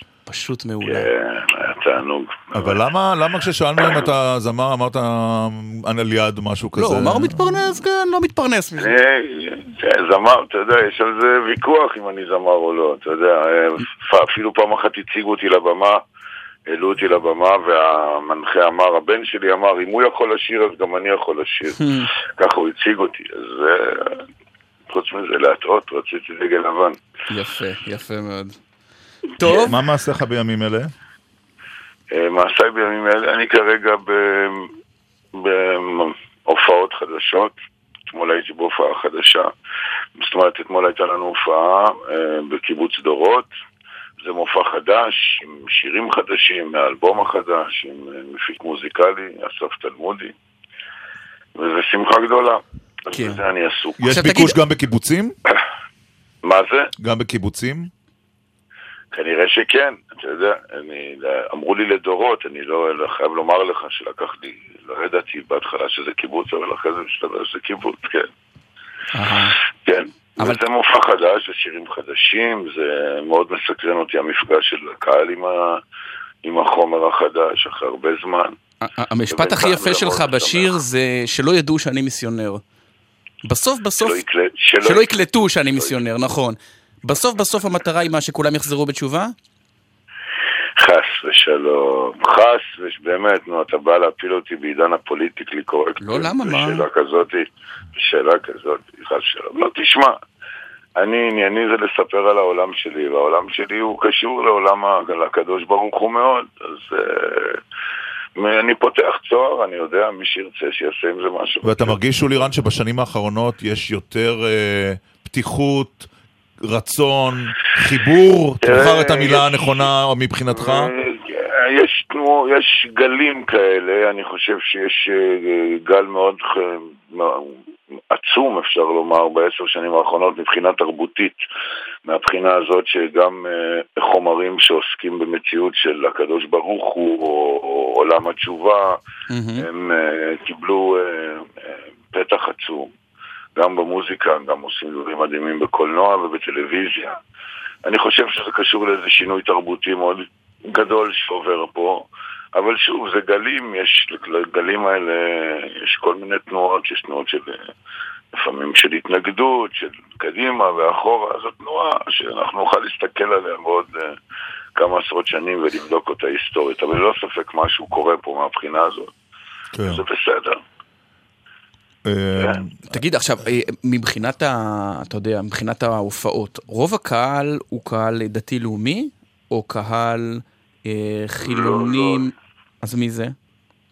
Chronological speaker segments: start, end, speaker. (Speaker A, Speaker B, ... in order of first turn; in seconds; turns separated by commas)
Speaker A: 0.3-1.1, Speaker B: 0.8-2.8, Speaker C: 2.5-7.4, Speaker A: 6.8-8.9, Speaker B: 8.8-16.0, Speaker B: 16.7-24.2, Speaker A: 21.8-22.1, Speaker B: 24.9-27.0, Speaker A: 27.3-28.6, Speaker A: 29.4-29.7, Speaker C: 29.4-30.9, Speaker B: 32.1-34.7, Speaker B: 35.3-39.5, Speaker B: 40.2-43.5, Speaker B: 44.2-50.3, Speaker B: 51.5-54.1, Speaker A: 53.1-53.4, Speaker C: 54.0-55.4, Speaker A: 54.1-54.6, Speaker B: 56.4-56.9, Speaker C: 57.0-57.9, Speaker B: 59.1-68.3, Speaker A: 69.1-69.5, Speaker B: 69.8-75.8, Speaker B: 76.4-78.5, Speaker A: 78.8-82.6, Speaker B: 79.3-80.8, Speaker A: 83.5-84.2, Speaker B: 84.0-85.2, Speaker A: 84.8-89.3, Speaker B: 90.8-100.2, Speaker A: 96.0-96.9, Speaker B: 101.0-107.6, Speaker B: 108.4-112.0, Speaker C: 111.6-116.1, Speaker C: 116.6-120.9, Speaker B: 118.6-119.9, Speaker B: 120.5-131.4, Speaker B: 132.1-139.0, Speaker A: 139.3-139.7, Speaker B: 139.6-142.9, Speaker B: 143.6-147.2, Speaker B: 147.8-157.7, Speaker B: 158.3-164.2, Speaker B: 164.8-169.1, Speaker C: 169.7-170.0, Speaker B: 169.8-170.6, Speaker C: 172.1-173.0, Speaker A: 172.9-183.3, Speaker B: 181.4-182.2